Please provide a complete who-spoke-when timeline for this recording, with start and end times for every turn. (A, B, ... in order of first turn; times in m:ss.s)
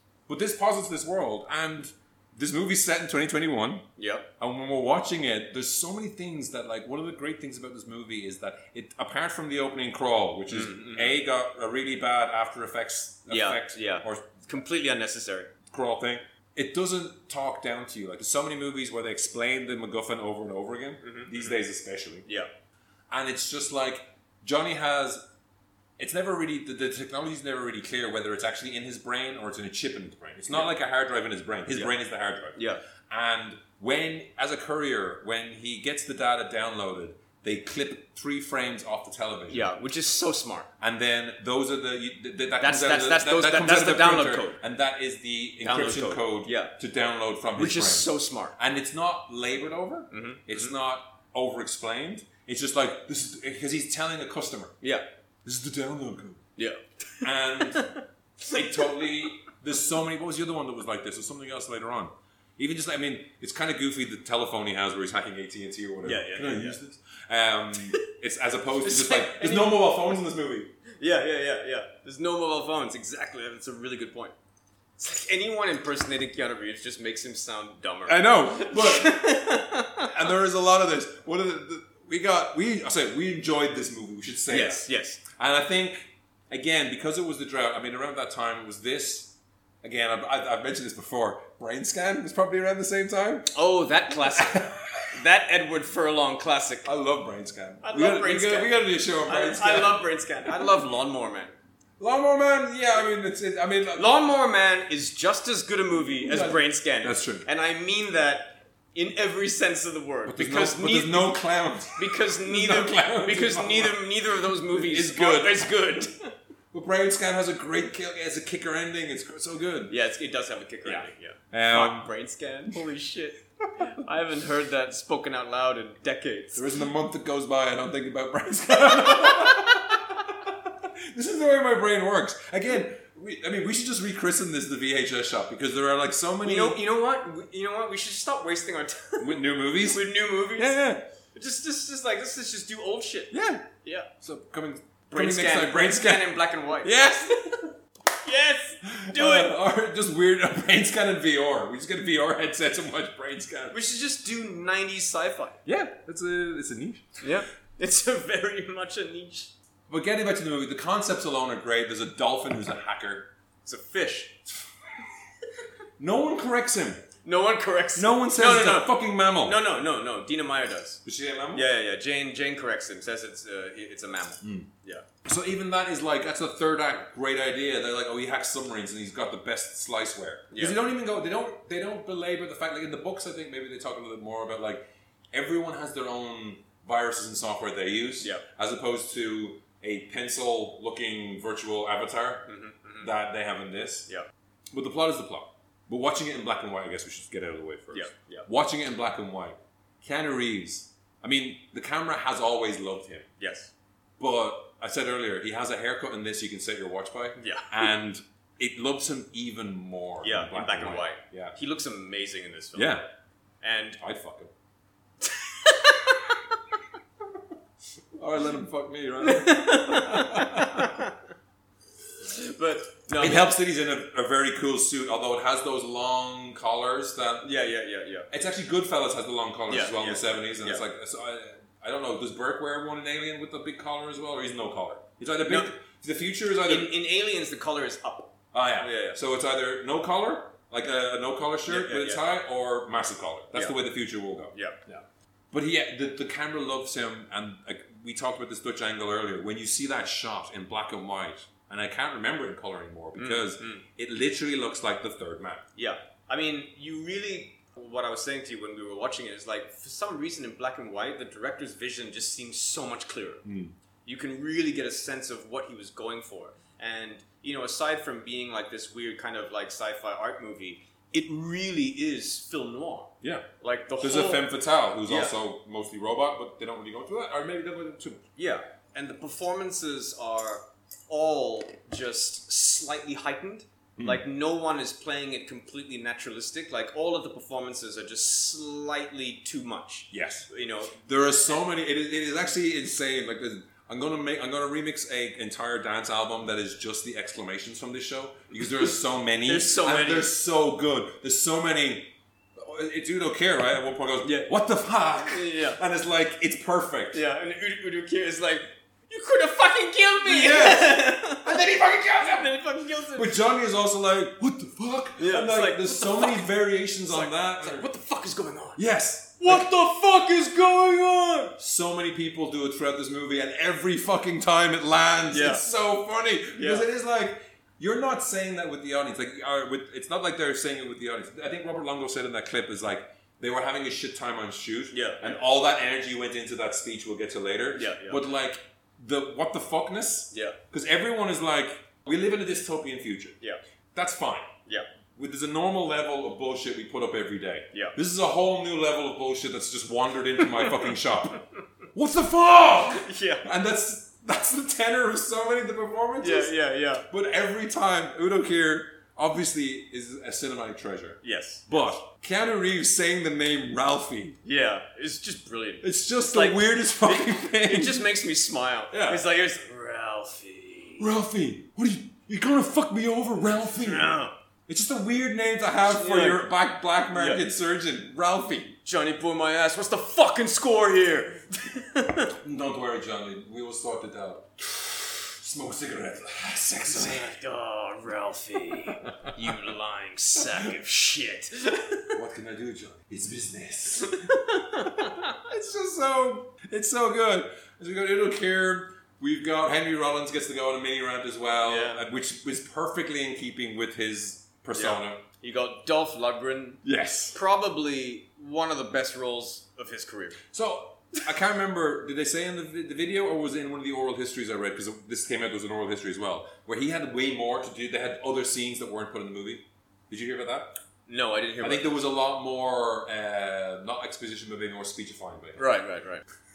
0:00.3-0:03.8 A
0:04.0-0:04.3 B
0:04.4-0:14.3 A
0:10.5-0:11.2 B
0:13.3-0:15.5 B
0:15.7-0:22.2 A
0:21.0-0:21.6 B
0:23.1-0:25.2 A
0:26.0-0:32.6 A
0:32.6-0:32.8 B
0:33.1-0:39.7 A
0:39.5-0:40.7 B
0:40.8-0:54.8 A
0:42.6-0:44.6 B
0:45.6-0:46.7 B
0:47.6-0:48.5 B
0:50.1-0:50.7 B
0:55.4-0:56.4 A
0:56.6-0:58.0 B
0:57.2-0:57.9 A
0:58.5-1:10.7 A
0:58.5-0:59.0 B
1:06.0-1:06.8 B
1:08.8-1:10.2 B
1:11.0-1:14.3 B
1:15.0-1:20.1 B
1:18.0-1:19.3 A
1:20.0-1:33.5 A
1:24.5-1:25.2 B
1:33.5-1:36.9 B
1:34.3-1:35.1 A
1:36.8-1:40.7 A
1:37.8-1:38.7 B
1:39.2-1:41.5 B
1:42.0-1:44.1 A
1:44.0-1:51.4 B
1:46.2-1:47.4 A
1:50.2-1:54.0 A
1:51.9-1:56.3 B
1:54.6-1:55.7 A
1:56.7-1:59.9 A
1:59.9-2:06.6 B
2:00.8-2:02.1 A
2:06.5-2:16.8 A
2:09.0-2:09.5 B
2:16.4-2:20.8 B
2:19.2-2:20.0 A
2:20.6-2:21.0 A
2:21.3-2:24.1 B
2:23.3-2:23.7 A
2:24.2-2:27.7 A
2:25.1-2:27.0 B
2:28.2-2:29.5 B
2:28.8-2:33.7 A
2:33.7-2:35.6 B
2:35.6-2:37.3 A
2:37.2-2:39.5 B
2:39.9-2:43.3 A
2:43.6-2:44.3 B
2:46.0-2:47.0 A
2:47.2-2:51.0 B
2:48.0-2:49.6 A
2:51.0-2:51.6 A
2:51.5-2:55.0 B
2:54.4-2:54.7 A
2:55.2-3:12.5 A
3:00.5-3:00.8 B
3:12.5-3:13.1 B
3:13.0-3:14.1 A
3:14.7-3:23.3 A
3:17.9-3:18.5 B
3:23.4-3:23.7 B
3:24.2-3:31.5 A
3:27.4-3:27.8 B
3:30.2-3:33.0 B
3:32.7-3:33.0 A
3:33.6-3:34.0 B
3:34.0-3:34.5 A
3:35.2-3:36.4 B
3:38.2-3:40.9 A
3:39.2-3:41.1 B
3:42.2-3:43.5 B
3:43.2-3:47.5 A
3:47.4-3:48.3 B
3:48.3-3:56.9 A
3:49.7-3:50.8 B
3:56.6-3:59.2 B
3:58.5-4:15.6 A
4:01.7-4:02.2 B
4:13.2-4:13.8 B
4:15.8-4:23.4 B
4:23.4-4:23.7 A
4:24.0-4:34.4 B
4:34.0-4:38.2 A
4:35.0-4:35.3 B
4:38.4-4:50.9 B
4:50.1-5:07.2 A
4:59.4-5:00.3 B
5:04.2-5:04.5 B
5:05.3-5:05.8 B
5:07.1-5:13.4 B
5:10.2-5:12.5 A
5:13.1-5:17.8 A
5:15.2-5:16.5 B
5:17.1-5:18.8 B
5:18.8-5:19.7 A
5:19.4-5:21.6 B
5:21.6-5:43.4 A
5:25.3-5:25.7 B
5:26.5-5:26.8 B
5:34.9-5:35.4 B
5:37.7-5:38.2 B
5:40.3-5:40.6 B
5:43.9-5:44.5 A
5:45.2-5:51.4 A
5:50.4-5:51.4 B
5:51.9-5:56.5 A
5:52.9-5:53.4 B
5:56.2-5:57.0 B
5:57.1-6:04.4 A
6:01.2-6:01.8 B
6:04.4-6:11.0 B
6:05.8-6:08.0 A
6:08.9-6:09.2 A
6:11.0-6:18.8 A
6:13.6-6:14.4 B
6:15.8-6:16.5 B
6:17.1-6:17.4 B
6:18.8-6:22.3 B
6:22.3-6:27.3 A
6:26.9-6:32.1 B
6:32.1-6:34.3 A
6:34.1-6:35.2 B
6:35.4-6:45.2 A
6:41.6-6:42.0 B
6:44.7-6:46.8 B
6:46.8-6:47.4 A
6:47.3-6:50.4 B
6:50.5-7:00.8 A
7:01.1-7:01.8 B
7:01.6-7:05.7 A
7:05.6-7:06.2 B